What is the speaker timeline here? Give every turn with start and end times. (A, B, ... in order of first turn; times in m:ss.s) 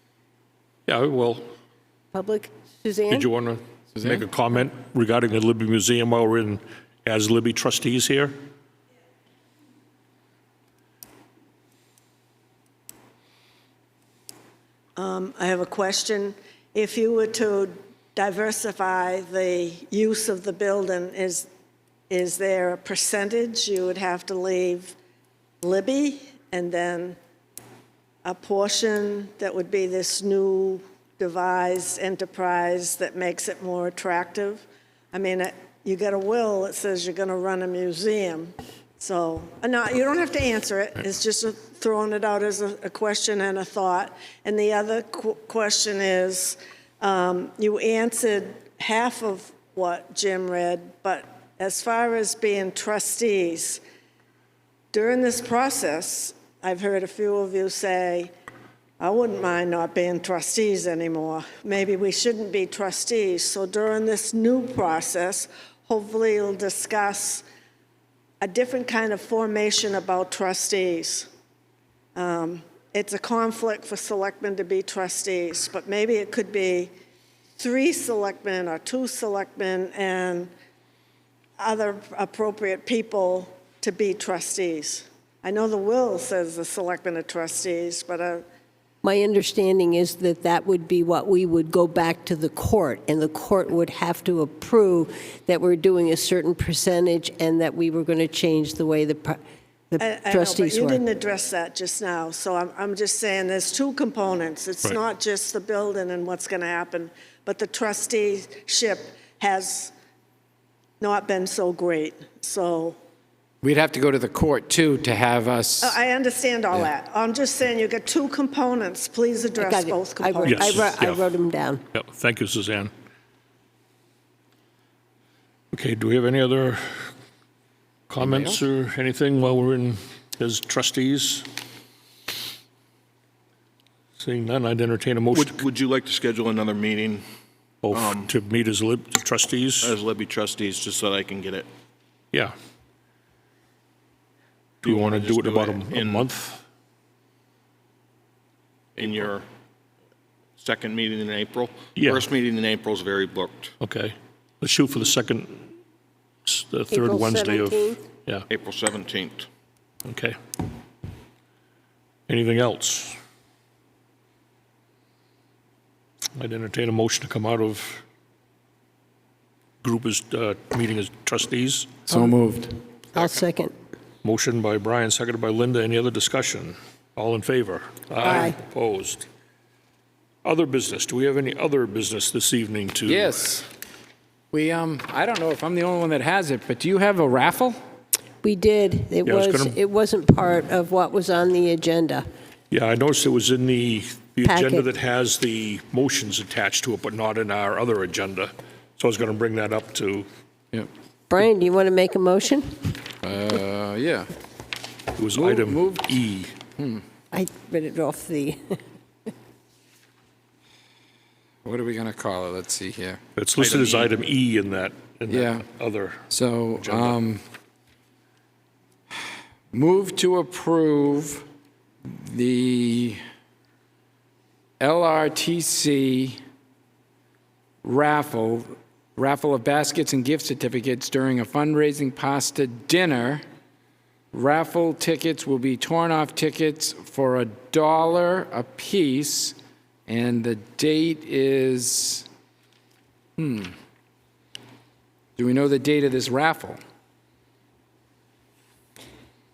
0:00.9-0:01.5 A
0:02.1-0:03.3 B
0:03.1-0:08.4 A
0:04.0-0:04.2 C
0:15.0-0:21.5 D
0:22.1-0:25.0 D
0:25.6-0:27.2 D
0:28.2-0:53.8 D
0:54.9-0:58.3 D
0:59.0-1:07.4 D
1:08.4-1:11.3 D
1:12.2-1:16.9 D
1:17.6-1:20.5 D
1:21.6-1:28.4 D
1:29.0-1:39.4 B
1:39.9-1:41.0 B
1:40.0-1:49.9 D
1:51.0-1:53.0 D
1:53.6-1:56.0 C
1:55.8-2:00.9 D
1:59.6-2:01.8 B
2:00.5-2:01.2 A
2:01.9-2:02.9 A
2:05.7-2:07.1 A
2:08.1-2:11.5 A
2:08.2-2:08.6 C
2:14.2-2:15.6 A
2:15.3-2:17.2 E
2:17.8-2:19.9 A
2:17.9-2:18.3 E
2:19.8-2:21.7 E
2:24.8-2:26.3 E
2:24.8-2:26.6 A
2:29.0-2:29.4 E
2:30.6-2:33.7 E
2:32.0-2:32.2 A
2:33.8-2:35.7 A
2:36.4-2:38.4 A
2:36.9-2:38.0 B
2:38.5-2:39.5 E
2:40.0-2:40.4 A
2:42.3-2:43.2 A
2:46.4-2:48.0 A
2:49.8-2:51.9 A
2:52.1-2:52.8 C
2:53.1-2:53.7 B
2:54.2-2:59.3 A
2:58.2-2:58.6 B
3:00.4-3:03.3 A
3:03.0-3:03.7 C
3:04.5-3:07.8 C
3:08.4-3:12.2 B
3:09.2-3:09.8 A
3:12.7-3:20.3 A
3:14.4-3:14.9 B
3:21.3-3:23.0 B
3:23.2-3:24.3 C
3:25.2-3:26.5 A
3:25.3-3:26.2 C
3:26.8-3:27.0 C
3:27.3-3:28.8 B
3:31.6-3:33.2 C
3:33.4-3:36.2 A
3:33.6-3:34.1 E
3:35.3-3:35.6 C
3:36.3-3:37.4 C
3:36.8-3:37.2 A
3:39.7-3:41.4 C
3:42.1-3:43.2 C
3:44.8-3:46.4 C
3:47.8-3:53.4 C
3:54.3-4:02.2 C
4:03.4-4:03.7 C
4:05.4-4:06.8 C